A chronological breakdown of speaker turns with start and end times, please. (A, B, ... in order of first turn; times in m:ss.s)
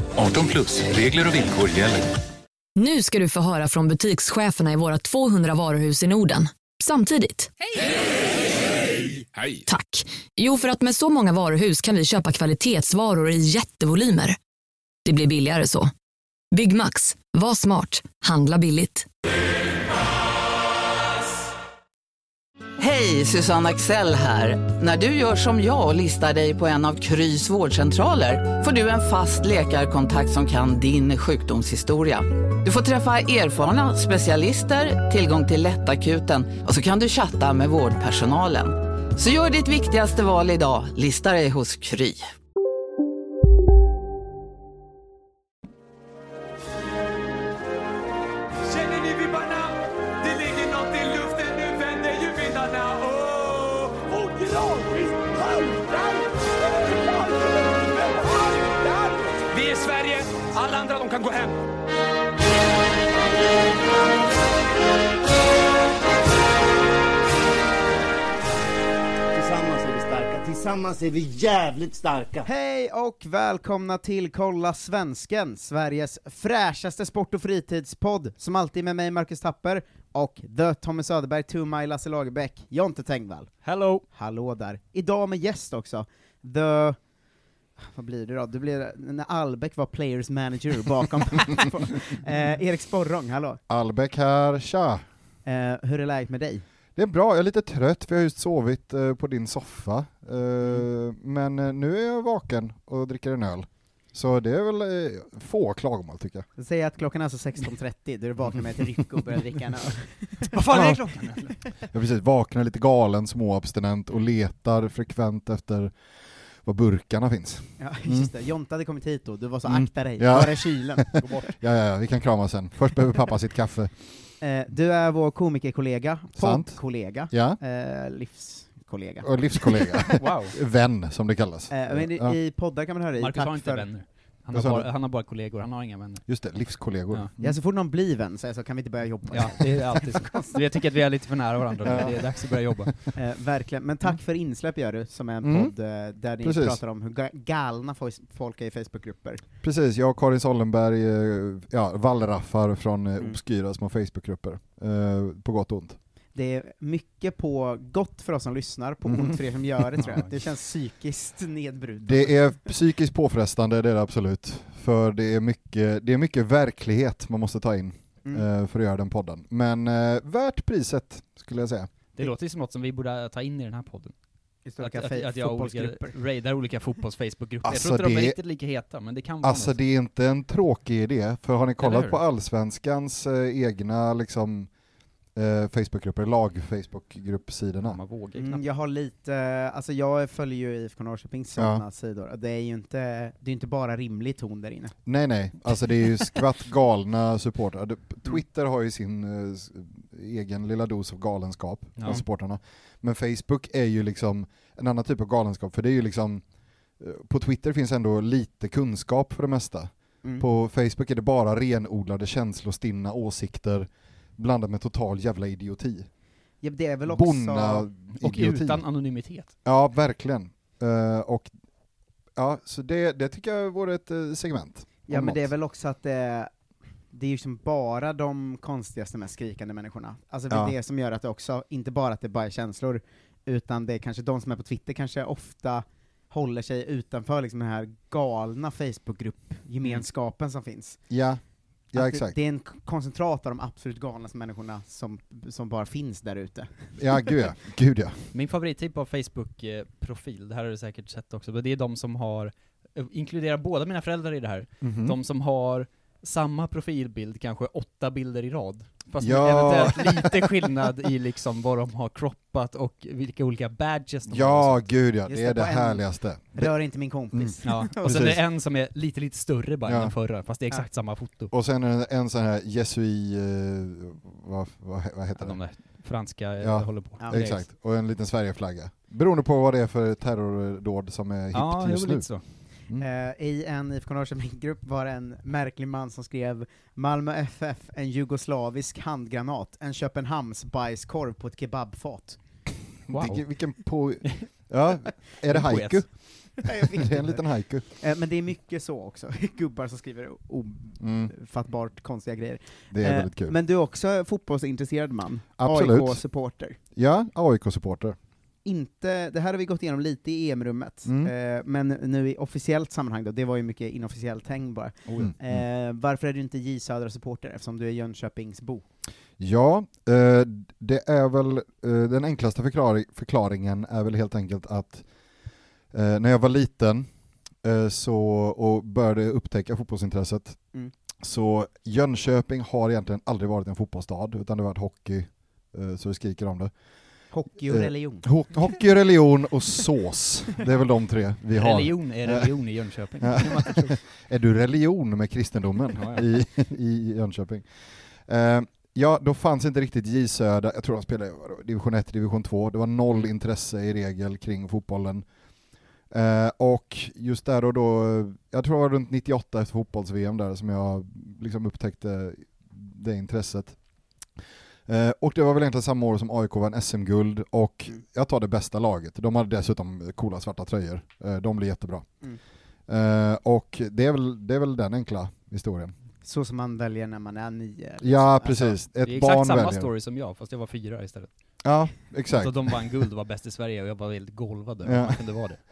0:00.2-0:02.1 A
0:02.8-0:07.5 B
0:09.3-0:09.6 A
0:09.7-0:14.4 B
0:15.0-0:15.9 B
0:16.5-0:19.1 B
0:22.8-0:42.2 C
0:48.7-1:01.6 D
1:09.3-1:12.5 E
1:12.4-1:23.6 F
1:23.6-1:24.0 G
1:24.1-1:27.0 F
1:27.8-1:33.6 F
1:33.7-1:35.0 H
1:35.4-1:36.6 F
1:37.0-1:46.4 H
1:46.6-1:50.5 F
1:50.5-1:51.6 G
1:50.7-1:51.0 H
1:51.9-1:55.9 H
1:56.6-1:58.3 H
1:57.8-2:01.3 F
1:59.6-2:03.9 H
2:01.2-2:01.5 G
2:04.4-2:10.0 F
2:06.4-2:06.8 H
2:07.3-2:07.6 H
2:09.2-2:12.4 H
2:10.2-2:10.6 G
2:11.7-2:13.9 F
2:13.2-2:16.2 G
2:14.5-2:14.9 H
2:16.3-2:17.6 H
2:17.4-2:20.6 F
2:19.3-2:23.0 G
2:21.8-2:22.2 H
2:23.2-2:29.4 F
2:25.4-2:25.7 H
2:26.4-2:26.8 H
2:29.6-2:36.0 H
2:36.3-2:42.6 F
2:39.1-2:39.3 H
2:40.0-2:40.3 G
2:42.0-2:51.9 H
2:52.2-2:54.1 G
2:54.7-2:56.2 F
2:54.8-2:59.8 G
2:57.6-2:58.4 H
2:59.4-3:04.7 H
3:01.8-3:02.2 G
3:05.4-3:08.0 H
3:07.8-3:08.6 G
3:08.4-3:14.9 F
3:11.6-3:11.8 H
3:15.1-3:26.4 H
3:27.0-3:36.1 H
3:36.6-3:37.9 F
3:37.1-3:38.8 H
3:38.1-3:39.5 G
3:39.6-3:41.5 H
3:42.4-3:45.5 H
3:45.1-3:46.5 F
3:47.1-4:01.0 F
4:01.1-4:01.4 H
4:01.9-4:02.4 H
4:01.9-4:07.3 F
4:07.0-4:08.2 H
4:08.3-4:24.9 G
4:14.8-4:15.2 H
4:19.2-4:20.4 H
4:24.3-4:26.7 H
4:25.3-4:26.0 F
4:26.5-4:28.1 F
4:27.3-4:28.4 H
4:27.6-4:31.5 G
4:29.8-4:30.1 H
4:31.5-4:35.6 H
4:35.4-4:37.6 G
4:36.6-4:42.2 H
4:41.5-4:42.4 G
4:43.0-4:52.4 F
4:53.1-4:56.1 H
4:53.1-4:53.4 G
4:55.5-4:56.0 G
4:56.6-5:06.8 F
4:56.8-4:57.8 H
5:01.0-5:01.3 H
5:02.9-5:03.5 H
5:05.6-5:06.2 H
5:06.9-5:08.2 H
5:08.6-5:18.8 F
5:11.0-5:11.3 H
5:15.2-5:15.6 H
5:19.4-5:25.0 H
5:25.9-5:27.1 H
5:27.6-5:30.6 H
5:31.2-5:36.7 H
5:37.3-5:38.3 F
5:37.7-5:42.5 H
5:41.5-5:44.0 G
5:43.2-5:47.7 H
5:46.0-5:46.2 G
5:48.3-5:55.2 H
5:56.1-6:03.8 H
6:04.9-6:12.1 H
6:12.9-6:15.9 H
6:16.2-6:18.8 F
6:18.0-6:19.9 H
6:19.0-6:21.3 G
6:21.6-6:22.8 H
6:22.3-6:25.6 G
6:24.8-6:25.2 H